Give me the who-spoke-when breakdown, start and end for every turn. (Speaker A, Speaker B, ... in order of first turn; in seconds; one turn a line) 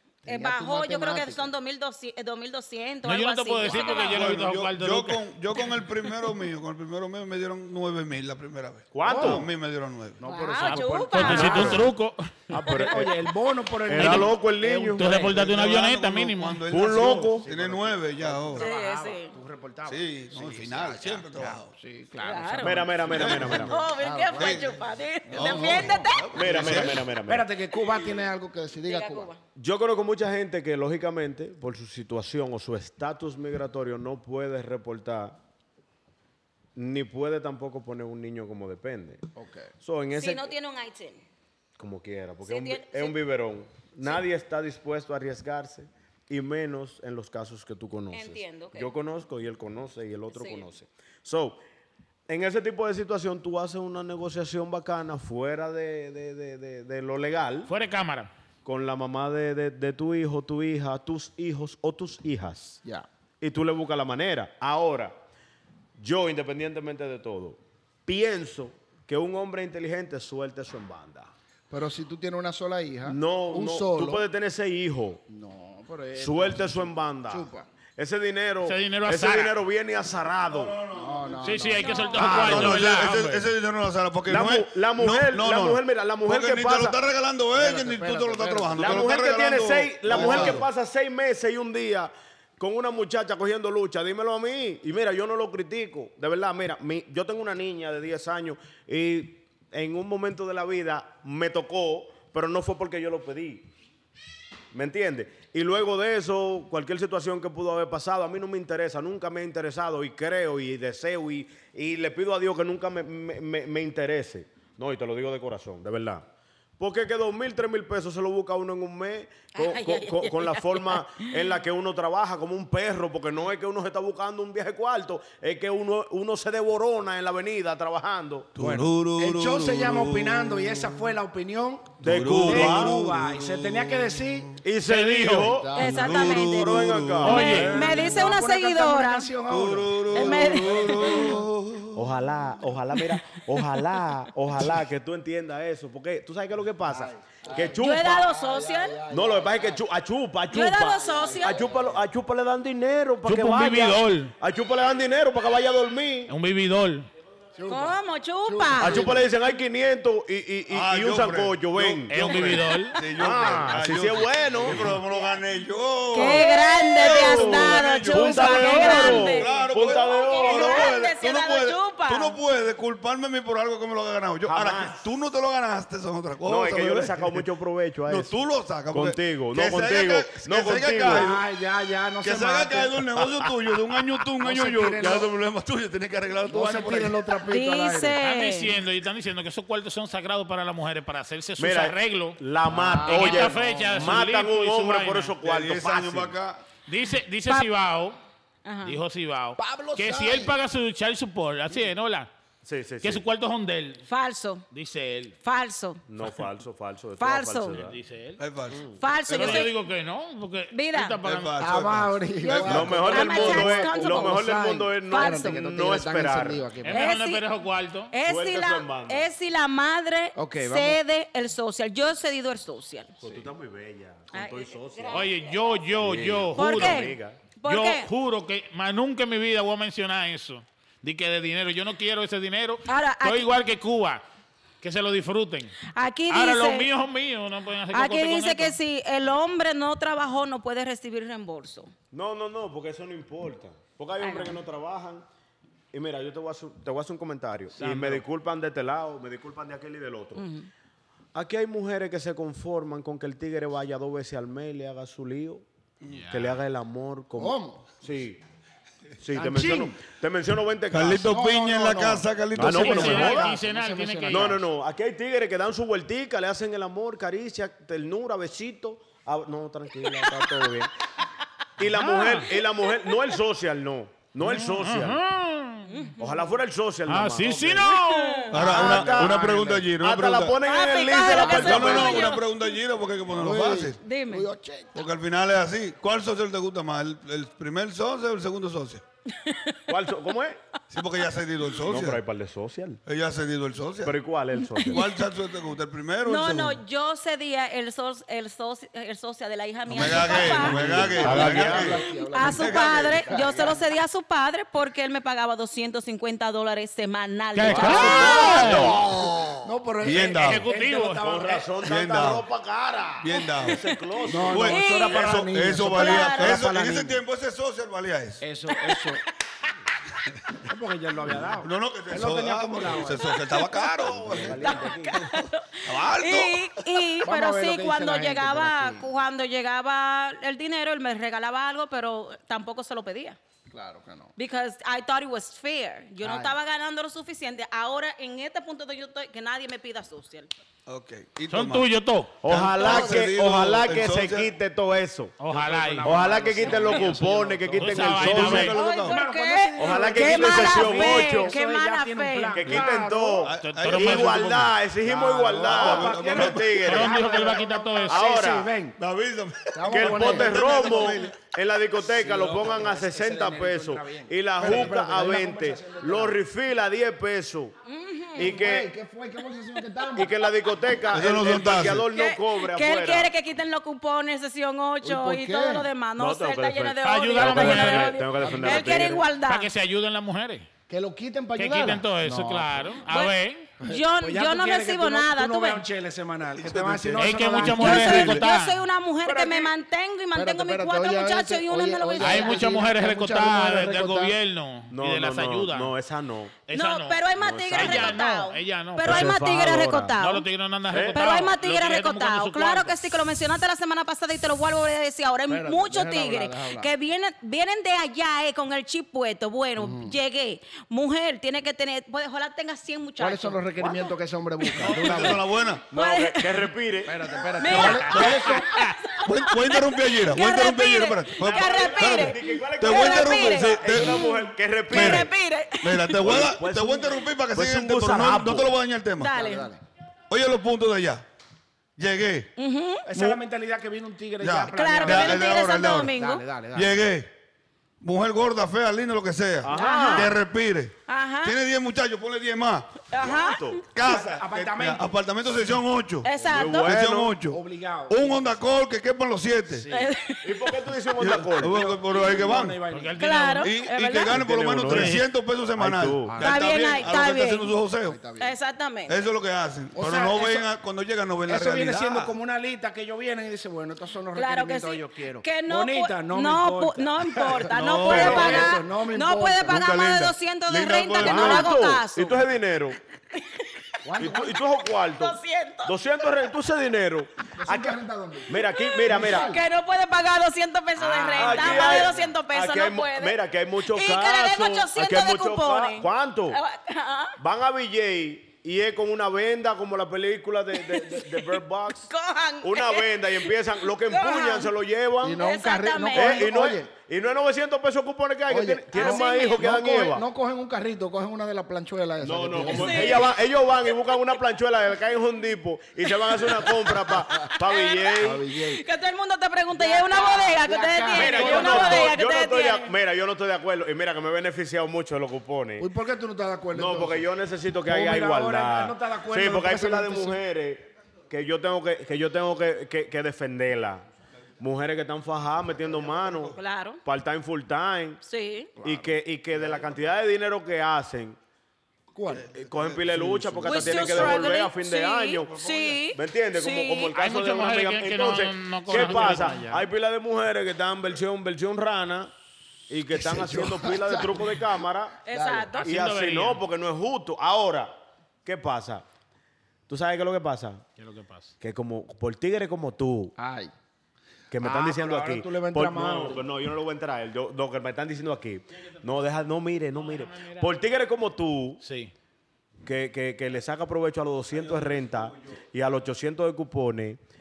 Speaker A: 0.2-1.5
Speaker B: 0.2-4.4
Speaker C: 3.0-5.2
Speaker D: 3.7-10.2
Speaker E: 8.9-9.5
Speaker A: 9.0-9.5
Speaker A: 10.2-11.9
Speaker B: 10.2-11.8
Speaker C: 10.6-12.9
Speaker E: 11.3-11.9
Speaker E: 12.5-13.2
Speaker A: 12.6-15.5
Speaker E: 13.8-15.5
Speaker C: 13.9-14.3
Speaker C: 14.9-16.6
Speaker D: 15.4-18.7
Speaker E: 16.7-17.4
Speaker A: 17.2-24.8
Speaker B: 18.5-19.3
Speaker D: 19.9-21.7
Speaker B: 22.2-26.8
Speaker E: 22.6-23.7
Speaker D: 23.1-23.7
Speaker D: 24.4-27.1
Speaker A: 25.3-29.3
Speaker E: 26.3-27.4
Speaker B: 28.9-29.4
Speaker E: 29.5-35.4
Speaker E: 36.7-39.3
Speaker A: 39.3-39.7
Speaker E: 39.8-40.5
Speaker B: 40.1-41.2
Speaker E: 41.8-51.6
Speaker B: 42.4-43.2
Speaker B: 48.1-48.9
Speaker B: 50.3-50.7
Speaker E: 52.3-57.7
Speaker C: 57.7-58.3
Speaker E: 58.6-62.8
Speaker E: 63.4-65.1
Speaker E: 66.0-71.3
Speaker A: 71.7-74.3
Speaker E: 73.0-75.2
Speaker A: 75.3-77.7
Speaker E: 76.2-80.8
Speaker C: 78.6-79.6
Speaker D: 80.5-81.6
Speaker A: 80.9-82.7
Speaker C: 81.4-83.5
Speaker B: 81.8-82.8
Speaker D: 82.2-90.7
Speaker E: 84.3-87.0
Speaker A: 87.5-89.1
Speaker E: 88.8-103.7
Speaker A: 90.0-90.6
Speaker E: 104.7-116.2
Speaker E: 116.8-128.5
Speaker B: 119.5-121.3
Speaker D: 128.5-130.9
Speaker A: 128.6-134.6
Speaker E: 132.0-132.9
Speaker D: 132.0-134.6
Speaker E: 134.6-137.8
Speaker C: 134.8-135.6
Speaker D: 135.4-138.1
Speaker A: 135.4-136.1
Speaker B: 135.7-139.3
Speaker C: 137.2-137.8
Speaker A: 137.5-141.4
Speaker D: 139.5-142.1
Speaker B: 140.1-141.3
Speaker E: 141.9-148.3
Speaker B: 143.0-143.6
Speaker A: 146.8-149.8
Speaker B: 147.8-149.0
Speaker E: 149.1-156.3
Speaker B: 150.5-151.7
Speaker A: 150.9-152.0
Speaker C: 153.2-154.3
Speaker C: 156.3-157.1
Speaker A: 157.6-159.3
Speaker B: 157.7-159.1
Speaker E: 158.8-162.6
Speaker D: 160.7-177.4
Speaker C: 162.1-163.0
Speaker E: 163.1-165.0
Speaker B: 166.1-172.4
Speaker E: 166.9-170.9
Speaker A: 168.5-169.2
Speaker E: 174.4-175.0
Speaker E: 176.4-178.4
Speaker D: 178.1-181.4
Speaker E: 178.9-181.3
Speaker A: 181.1-183.0
Speaker D: 182.2-187.2
Speaker E: 183.2-183.9
Speaker A: 184.4-185.3
Speaker A: 186.5-188.2
Speaker B: 187.5-188.7
Speaker C: 188.2-192.4
Speaker E: 191.6-196.3
Speaker A: 192.7-194.0
Speaker C: 193.0-195.3
Speaker D: 195.4-196.6
Speaker C: 196.8-198.2
Speaker B: 198.6-199.0
Speaker C: 198.8-202.3
Speaker A: 199.6-200.6
Speaker E: 202.6-203.2
Speaker C: 203.0-204.0
Speaker B: 204.1-204.6
Speaker C: 204.7-205.3
Speaker B: 205.4-206.0
Speaker E: 206.1-208.0
Speaker B: 207.2-207.8
Speaker C: 207.7-208.4
Speaker D: 208.4-209.7
Speaker E: 208.7-209.0
Speaker B: 209.0-209.7
Speaker C: 209.3-211.7
Speaker B: 210.7-211.2
Speaker D: 211.2-213.0
Speaker A: 211.6-217.2
Speaker B: 212.4-214.4
Speaker E: 212.7-216.6
Speaker B: 215.1-215.6
Speaker C: 216.8-218.1
Speaker B: 216.9-217.4
Speaker B: 218.1-223.2
Speaker E: 218.2-219.3
Speaker A: 220.3-221.0
Speaker E: 223.2-225.3
Speaker B: 224.3-225.4
Speaker C: 225.1-227.1
Speaker E: 226.0-227.4
Speaker B: 226.5-228.1
Speaker C: 227.7-234.2
Speaker B: 232.9-233.5
Speaker C: 234.8-235.7
Speaker B: 235.8-236.9
Speaker C: 236.3-238.8
Speaker B: 237.9-241.9
Speaker E: 242.1-245.2
Speaker B: 244.2-244.6
Speaker E: 245.9-250.4
Speaker C: 247.7-248.2
Speaker B: 250.3-250.7
Speaker E: 251.3-255.6
Speaker C: 256.1-256.6
Speaker E: 256.3-258.4
Speaker A: 257.4-257.8
Speaker E: 259.2-261.3
Speaker A: 259.3-260.0
Speaker D: 260.9-263.4
Speaker A: 261.2-264.6
Speaker E: 262.5-263.5
Speaker C: 262.7-264.6
Speaker E: 264.3-270.9
Speaker E: 271.8-275.2
Speaker C: 271.8-272.5
Speaker B: 272.9-273.1
Speaker C: 274.4-275.9
Speaker B: 275.9-276.4
Speaker E: 276.2-277.8
Speaker C: 277.1-278.5
Speaker B: 277.8-278.5
Speaker D: 278.5-280.6
Speaker E: 278.5-282.4
Speaker A: 278.6-279.9
Speaker B: 280.6-282.7
Speaker D: 281.2-284.0
Speaker A: 281.4-281.9
Speaker A: 283.3-284.9
Speaker B: 284.0-284.4
Speaker D: 284.9-289.0
Speaker B: 289.3-289.8
Speaker E: 289.9-290.6
Speaker D: 290.9-292.2
Speaker E: 291.8-293.0
Speaker D: 293.1-294.1
Speaker E: 294.0-295.1
Speaker B: 294.6-295.0
Speaker D: 294.8-296.8
Speaker B: 296.2-308.9
Speaker D: 299.9-303.7
Speaker A: 299.9-303.8
Speaker E: 300.0-302.0
Speaker C: 307.5-309.0
Speaker A: 307.7-308.9
Speaker E: 307.7-309.6
Speaker D: 307.9-309.1
Speaker A: 309.6-311.8
Speaker D: 310.0-310.7
Speaker C: 310.3-311.3
Speaker E: 311.2-314.7
Speaker D: 311.8-312.4
Speaker D: 313.2-318.4
Speaker A: 314.3-317.2
Speaker B: 314.6-315.4
Speaker B: 315.9-316.6
Speaker A: 318.4-319.2
Speaker B: 318.7-319.1
Speaker A: 320.6-323.4
Speaker D: 321.6-327.0
Speaker B: 323.2-323.9
Speaker E: 324.0-325.3
Speaker A: 324.2-324.9
Speaker B: 324.6-333.4
Speaker A: 327.2-329.1
Speaker A: 333.7-334.3
Speaker B: 334.4-340.5
Speaker A: 336.2-336.5
Speaker D: 340.9-341.9
Speaker C: 341.5-342.4
Speaker E: 342.4-345.3
Speaker D: 342.4-344.5
Speaker B: 342.8-343.2
Speaker C: 345.4-347.1
Speaker A: 345.5-353.5
Speaker E: 346.0-348.8
Speaker C: 347.7-348.8
Speaker D: 348.0-349.2
Speaker B: 348.5-352.9
Speaker E: 349.8-351.5
Speaker E: 352.6-357.4
Speaker D: 353.4-354.7
Speaker C: 353.6-354.7
Speaker A: 355.0-359.0
Speaker D: 355.5-356.8
Speaker C: 356.8-358.3
Speaker E: 358.1-358.7
Speaker D: 359.0-361.4
Speaker A: 359.7-361.2
Speaker E: 359.9-367.7
Speaker A: 362.0-366.4
Speaker D: 364.6-364.9
Speaker B: 367.9-368.6
Speaker E: 368.4-368.9
Speaker A: 368.4-370.4
Speaker E: 370.1-373.3
Speaker D: 371.1-372.1
Speaker B: 372.1-379.7
Speaker A: 375.0-375.9
Speaker E: 376.2-379.2
Speaker C: 377.0-378.2
Speaker A: 378.4-378.9
Speaker C: 379.4-380.7
Speaker A: 380.9-383.0
Speaker C: 381.6-383.7
Speaker B: 383.1-385.8
Speaker A: 383.8-388.4
Speaker D: 386.6-388.4
Speaker E: 387.1-387.6
Speaker C: 387.2-388.8
Speaker B: 387.7-392.8
Speaker A: 389.2-389.7
Speaker A: 390.3-394.4
Speaker C: 392.2-395.9
Speaker E: 394.9-396.5
Speaker C: 396.7-399.4
Speaker B: 396.7-400.4
Speaker E: 397.4-398.2
Speaker E: 399.0-400.1
Speaker C: 400.2-403.2
Speaker E: 400.9-401.2
Speaker B: 401.1-413.9
Speaker A: 405.5-406.9
Speaker A: 409.8-410.1
Speaker A: 413.2-415.5
Speaker B: 414.6-415.1
Speaker D: 414.8-415.9
Speaker B: 415.9-416.7
Speaker E: 415.9-417.5
Speaker A: 417.0-418.7
Speaker B: 417.6-426.5
Speaker D: 417.7-418.6
Speaker C: 417.8-418.9
Speaker D: 419.2-424.2
Speaker E: 421.4-425.3
Speaker D: 424.9-429.3
Speaker E: 426.2-428.8
Speaker B: 429.2-429.7
Speaker A: 429.3-429.8
Speaker D: 430.3-431.2
Speaker D: 432.0-432.5
Speaker B: 432.6-433.1
Speaker A: 433.1-435.5
Speaker D: 434.4-436.2
Speaker B: 434.7-436.4
Speaker A: 436.1-437.0
Speaker D: 436.7-437.3
Speaker D: 438.0-443.1
Speaker E: 439.6-440.3
Speaker B: 439.7-440.3
Speaker B: 441.1-441.6
Speaker B: 443.1-443.8
Speaker E: 443.2-443.8
Speaker D: 443.9-449.9
Speaker A: 444.0-445.1
Speaker B: 446.2-446.9
Speaker A: 446.3-446.6
Speaker E: 446.5-447.4
Speaker A: 447.5-448.6
Speaker A: 449.7-450.1
Speaker B: 449.9-450.8
Speaker E: 450.4-451.9
Speaker D: 451.2-452.8
Speaker A: 451.6-453.2
Speaker C: 452.9-453.7
Speaker B: 453.2-454.4
Speaker D: 453.6-458.2
Speaker E: 454.3-455.2
Speaker C: 454.8-455.2
Speaker E: 455.8-456.4
Speaker A: 456.2-457.0
Speaker B: 456.4-457.7
Speaker A: 458.1-458.5
Speaker B: 458.4-459.2
Speaker D: 459.1-462.3
Speaker A: 459.9-460.7
Speaker A: 461.5-469.8
Speaker B: 464.3-472.4
Speaker D: 467.7-468.7
Speaker E: 468.2-468.4
Speaker D: 469.6-471.8
Speaker E: 471.2-473.0
Speaker B: 473.3-473.9
Speaker A: 474.0-474.6
Speaker E: 474.2-479.5
Speaker B: 475.1-476.3
Speaker A: 477.6-479.6
Speaker B: 478.6-487.4
Speaker A: 480.9-482.3
Speaker E: 481.3-486.6
Speaker E: 487.4-492.1
Speaker B: 490.7-494.7
Speaker E: 492.6-495.4
Speaker A: 495.2-496.9
Speaker B: 495.3-496.5
Speaker E: 496.1-500.2
Speaker A: 498.5-503.3
Speaker B: 498.9-499.7
Speaker E: 502.2-508.4
Speaker B: 502.6-504.3
Speaker B: 506.1-512.9
Speaker A: 508.2-508.8
Speaker A: 509.7-512.2
Speaker E: 511.1-515.9
Speaker A: 515.8-517.3
Speaker E: 516.7-524.0
Speaker A: 517.8-520.4
Speaker E: 524.6-528.2
Speaker D: 526.0-526.6
Speaker B: 526.5-527.0
Speaker B: 528.2-528.7
Speaker A: 528.8-529.2
Speaker E: 528.8-531.4
Speaker A: 532.1-532.5
Speaker D: 532.3-534.6
Speaker E: 532.5-542.3
Speaker B: 533.6-537.1
Speaker D: 535.5-536.0
Speaker C: 537.1-539.6
Speaker A: 538.9-539.9
Speaker E: 542.9-545.2
Speaker A: 543.1-544.7
Speaker B: 545.2-545.9
Speaker A: 545.3-545.7
Speaker C: 545.8-546.6
Speaker E: 545.8-547.9
Speaker E: 548.4-549.0
Speaker E: 549.9-550.8
Speaker C: 551.0-551.5
Speaker E: 551.6-553.3
Speaker A: 553.4-553.7
Speaker E: 554.5-561.8
Speaker A: 554.6-556.5
Speaker C: 559.9-560.7
Speaker C: 561.8-562.1
Speaker E: 562.8-567.2